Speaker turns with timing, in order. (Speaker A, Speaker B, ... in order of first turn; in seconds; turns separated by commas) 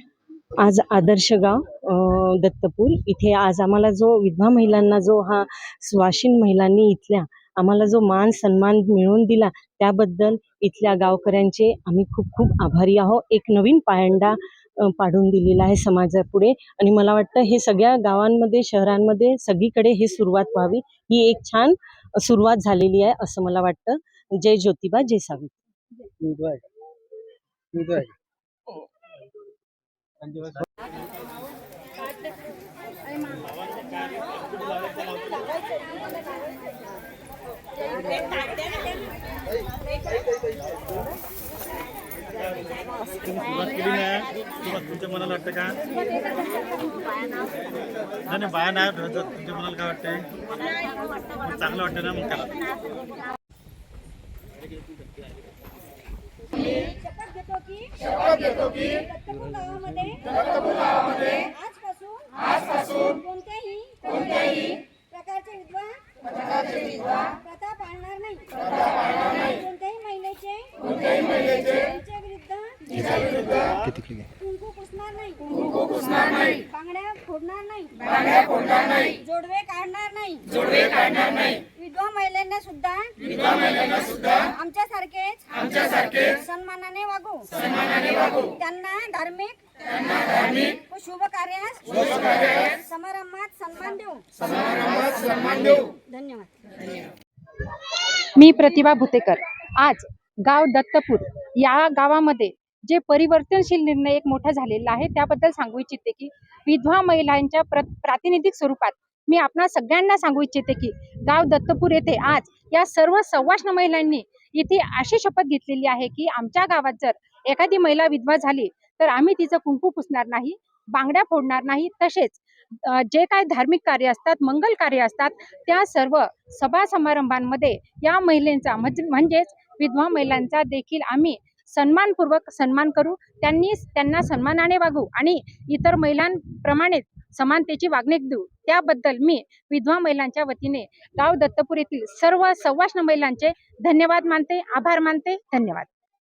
Speaker A: 0.6-25.5, Speaker B: 33.4-35.5, Speaker B: 42.4-45.8, Speaker B: 48.3-50.3, Speaker B: 51.5-52.6, Speaker C: 56.8-66.0, Speaker C: 66.6-73.2, Speaker B: 73.0-73.9, Speaker C: 74.4-89.6, Speaker C: 90.1-96.5, Speaker D: 98.4-145.9